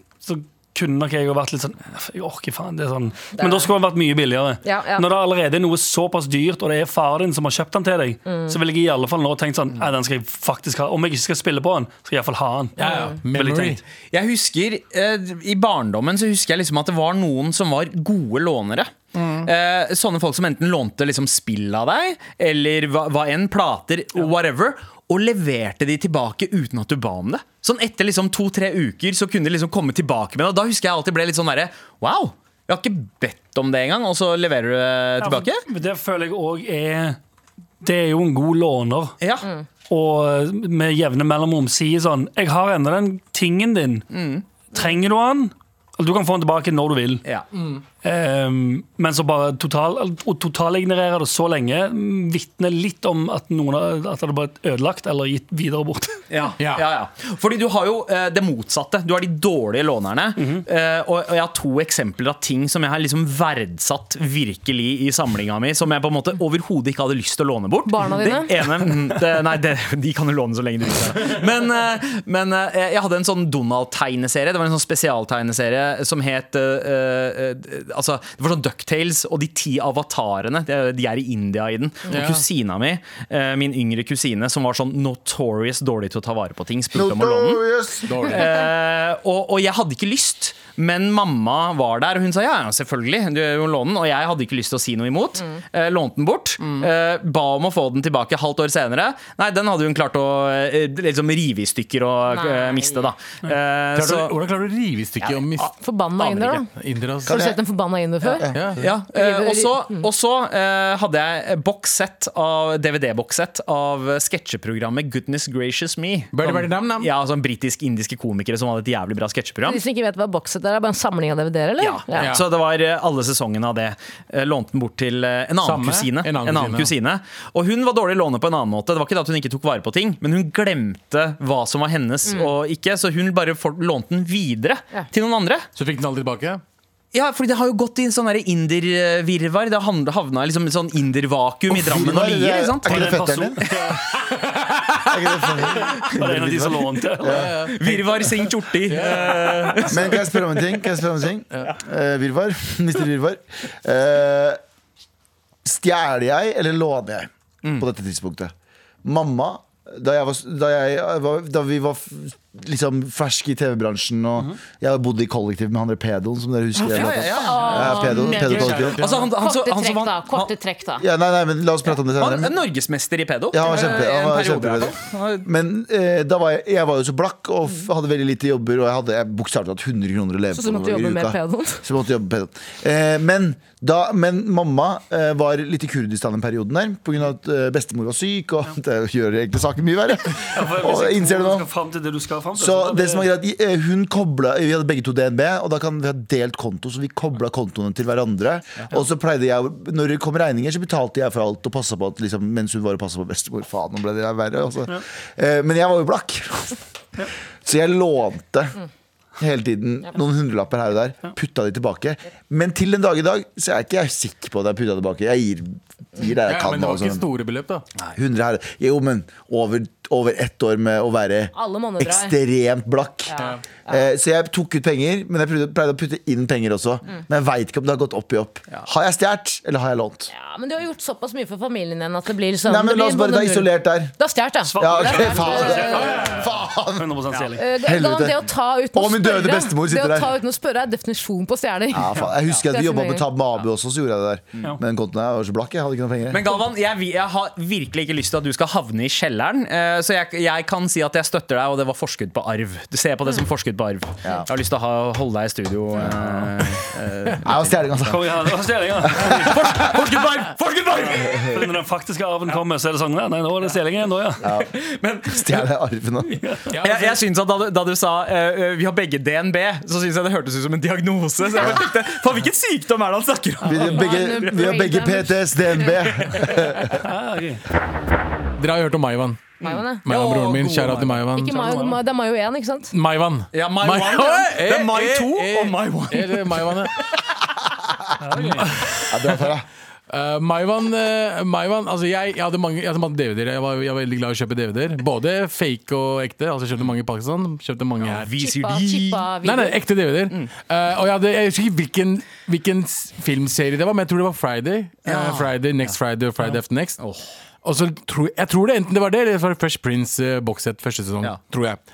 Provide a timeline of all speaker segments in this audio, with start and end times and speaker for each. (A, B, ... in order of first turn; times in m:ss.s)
0:00.2-0:13.8 A
0:03.4-0:03.7 B
0:04.6-0:05.1 B
0:08.3-0:08.6 B
0:12.8-0:13.8 C
0:12.8-0:13.1 B
0:14.1-0:18.9 D
0:19.2-0:19.5 C
0:19.4-0:35.6 D
0:35.2-0:37.2 A
0:37.8-0:39.2 A
0:39.2-0:39.5 D
0:39.9-0:44.1 A
0:44.1-0:44.4 D
0:44.7-0:47.2 A
0:47.5-0:47.8 C
0:48.0-0:56.2 A
0:56.3-1:27.6 D
0:56.6-0:56.9 C
1:00.4-1:00.6 A
1:07.9-1:08.5 B
1:22.1-1:22.4 C
1:26.9-1:28.2 E
1:28.1-1:28.5 C
1:28.2-1:44.4 D
1:36.6-1:36.9 C
1:42.3-1:43.1 B
1:44.0-1:45.7 C
1:45.6-1:46.7 B
1:46.2-1:46.6 D
1:46.7-1:47.4 C
1:47.2-1:47.6 E
1:47.3-1:48.5 B
1:48.2-1:48.7 E
1:48.5-1:48.9 C
1:48.8-1:59.8 D
1:49.1-1:50.0 B
1:56.3-1:57.1 C
1:59.6-2:02.3 B
2:01.8-2:15.7 D
2:02.2-2:02.4 C
2:05.6-2:06.9 C
2:15.8-2:16.6 C
2:17.1-2:23.1 D
2:21.7-2:23.6 E
2:22.9-2:24.0 A
2:24.1-2:25.6 C
2:25.1-2:27.5 E
2:26.1-2:27.5 A
2:27.3-2:28.3 C
2:27.7-2:30.2 D
2:28.8-2:30.2 C
2:29.9-2:34.6 E
2:35.6-2:38.5 E
2:39.0-2:49.0 E
2:46.9-2:48.1 D
2:47.4-2:51.0 B
2:47.7-2:49.3 C
2:49.0-2:50.5 D
2:51.0-2:52.6 E
2:52.1-2:55.5 D
2:53.5-3:11.7 E
3:00.5-3:01.8 B
3:10.5-3:13.3 A
3:12.6-3:26.8 E
3:27.6-3:28.8 E
3:29.4-3:37.3 E
3:36.5-3:37.8 C
3:38.2-3:50.3 E
3:41.6-3:42.4 B
3:43.3-3:44.0 B
3:50.3-3:56.3 B
3:52.6-3:54.1 E
3:54.7-3:56.4 A
3:54.8-3:57.1 E
3:56.0-3:56.3 C
3:56.9-3:57.6 A
3:57.6-4:03.3 B
3:57.8-4:00.3 E
4:01.9-4:06.5 E
4:06.3-4:17.9 D
4:16.0-4:16.5 E
4:17.4-4:19.7 E
4:18.1-4:19.6 A
4:19.3-4:21.2 C
4:19.7-4:21.4 D
4:21.2-4:24.4 A
4:21.3-4:21.6 E
4:24.4-4:24.7 E
4:24.6-4:25.6 D
4:25.3-4:26.4 E
4:26.3-4:26.7 A
4:26.7-4:27.2 C
4:26.8-4:34.2 D
4:33.6-4:37.0 E
4:33.9-4:35.9 B
4:37.0-4:37.6 A
4:38.6-4:39.5 C
4:39.6-4:40.0 B
4:39.6-4:41.2 D
4:40.0-4:41.6 C
4:41.4-4:42.9 B
4:41.5-4:42.0 A
4:42.9-4:46.9 C
4:43.5-4:46.8 D
4:48.2-4:48.7 A
4:48.4-4:49.5 C
4:49.1-4:49.7 E
4:50.1-4:58.3 C
4:58.0-4:59.2 D
4:58.4-4:59.8 B
4:59.4-5:07.0 C
5:05.1-5:06.0 D
5:07.0-5:07.3 D
5:07.6-5:11.8 C